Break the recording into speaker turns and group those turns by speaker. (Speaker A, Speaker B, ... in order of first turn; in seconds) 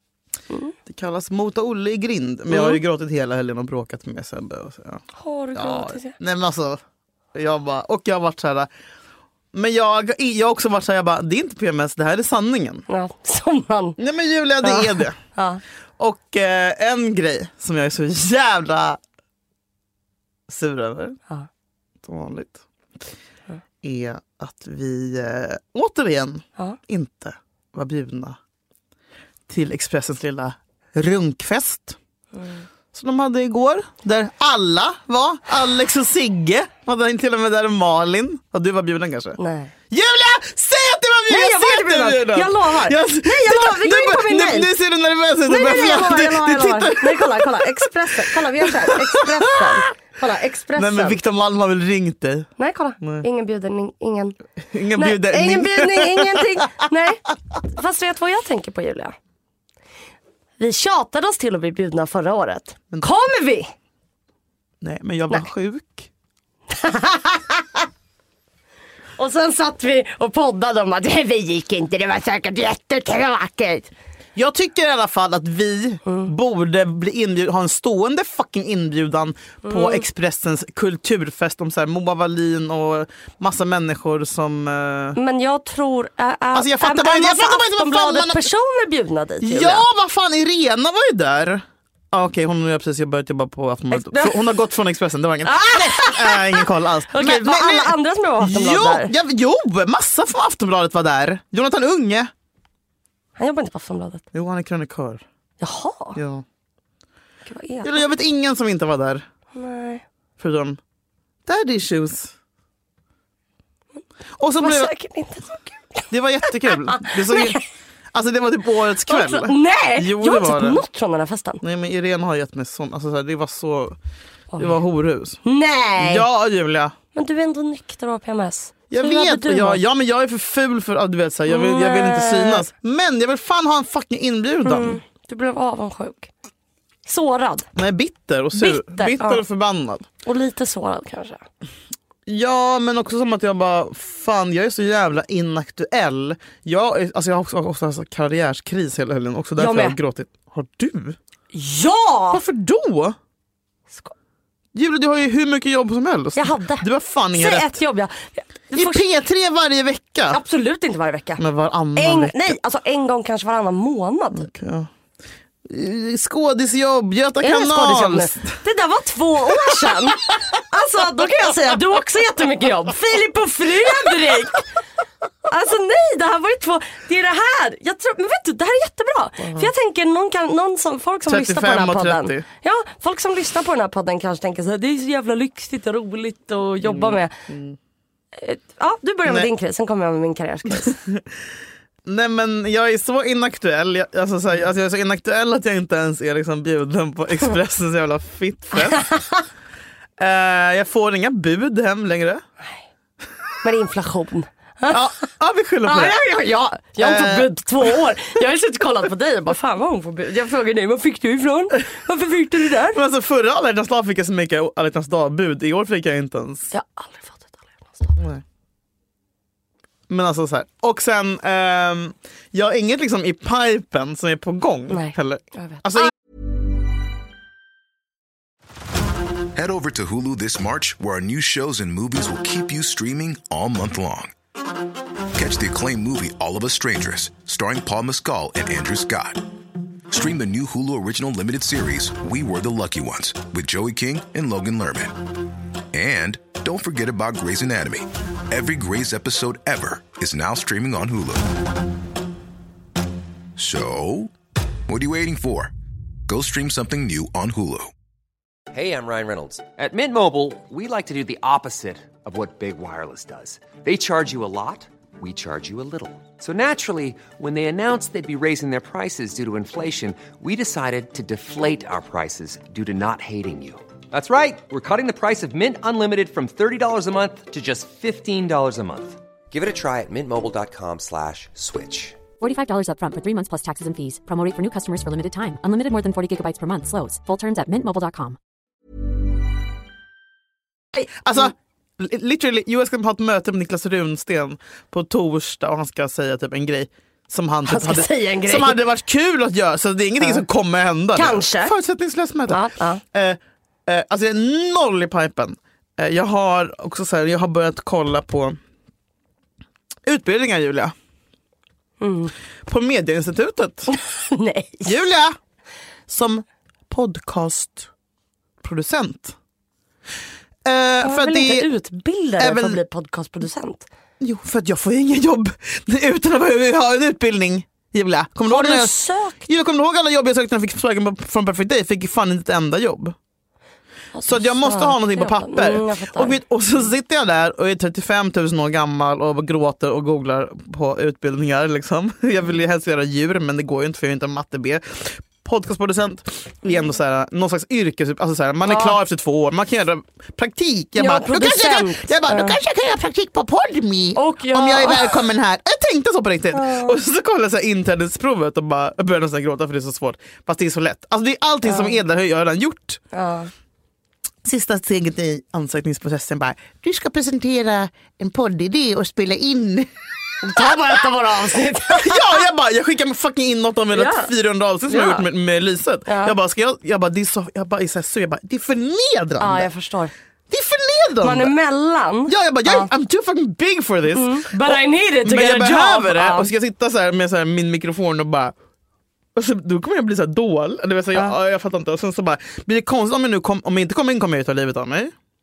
Speaker A: 0.9-5.0, 5.5-6.8, 7.3-8.7, 9.5-12.8, 14.0-15.2, 16.0-19.0, 20.5-21.2, 22.0-22.6, 23.8-28.4, 29.5-32.0, 32.9-39.4, 39.9-49.8, 50.8-52.5, 54.7-56.5, 64.8-66.1, 74.3-85.2, 86.5-88.5, 89.4-102.3, 104.3-105.2, 106.2-106.4, 107.8-109.2, 110.4-110.8, 111.5-112.3, 114.4-114.9, 116.1-117.6, 118.1-120.8, 121.6-124.0, 124.6-125.4, 126.0-127.0, 128.9-135.0, 137.8-140.1, 142.3-151.2, 152.3-153.2, 154.7-157.8, 158.7-160.4, 161.4-162.6, 164.3-164.9, 165.7-168.6, 179.4-179.7, 181.3-182.5, 186.8-187.8, 190.8-191.2, 192.1-199.1, 200.2-202.4, 204.9-206.2, 207.0-208.0, 212.9-216.7, 218.2-218.4, 220.1-226.1, 291.1-308.6, 310.1-310.9, 312.7-313.9, 314.9-315.4, 316.1-317.9, 318.6-319.4, 320.6-321.7, 322.4-322.8, 324.2-333.2, 334.2-363.0, 364.4-369.9, 370.6-370.9, 371.9-379.7, 380.5-381.5, 382.3-388.6, 389.4-395.1
Speaker B: 2.5-2.8, 5.1-6.2, 12.9-14.0, 14.6-15.6, 32.4-32.6, 39.4-39.7, 41.3-44.7, 45.5-51.2, 52.6-54.4, 55.0-59.1, 60.6-63.7, 66.7-67.9, 69.2-73.9, 76.1-76.3, 79.6-80.1, 85.2-89.9, 93.9-94.5, 95.5-99.1, 103.4-104.2, 105.6-106.2, 107.5-108.1, 109.5-110.0, 114.6-117.6, 119.1-121.6, 124.5-124.8, 125.4-126.3, 127.1-129.8, 131.5-132.7, 134.7-136.3, 137.1-137.7, 138.5-139.4, 140.2-141.4, 149.6-150.0, 151.5-152.4, 156.4-159.0, 160.3-161.4, 161.9-164.5, 167.4-174.7, 175.5-187.4, 188.4-191.0, 198.9-199.4, 203.6-205.1, 205.8-213.0, 216.7-218.2, 224.9-226.1, 297.6-298.8, 301.1-301.8, 302.5-303.0, 312.0-312.3, 313.9-315.0, 321.0-323.9, 328.5-329.5, 334.1-336.4, 348.7-349.0, 351.0-352.6, 354.2-355.2, 356.5-357.0, 361.6-362.0, 363.1-363.5, 370.4-372.4, 373.9-374.3, 374.9-375.3, 376.1-376.4, 379.4-380.1, 381.2-382.9, 384.1-386.5
Speaker C: 229.5-234.3, 235.3-239.5, 240.1-245.3, 245.9-251.6, 253.6-254.3, 254.9-255.7, 256.3-257.9
Speaker D: 258.7-282.2
Speaker E: 282.4-288.4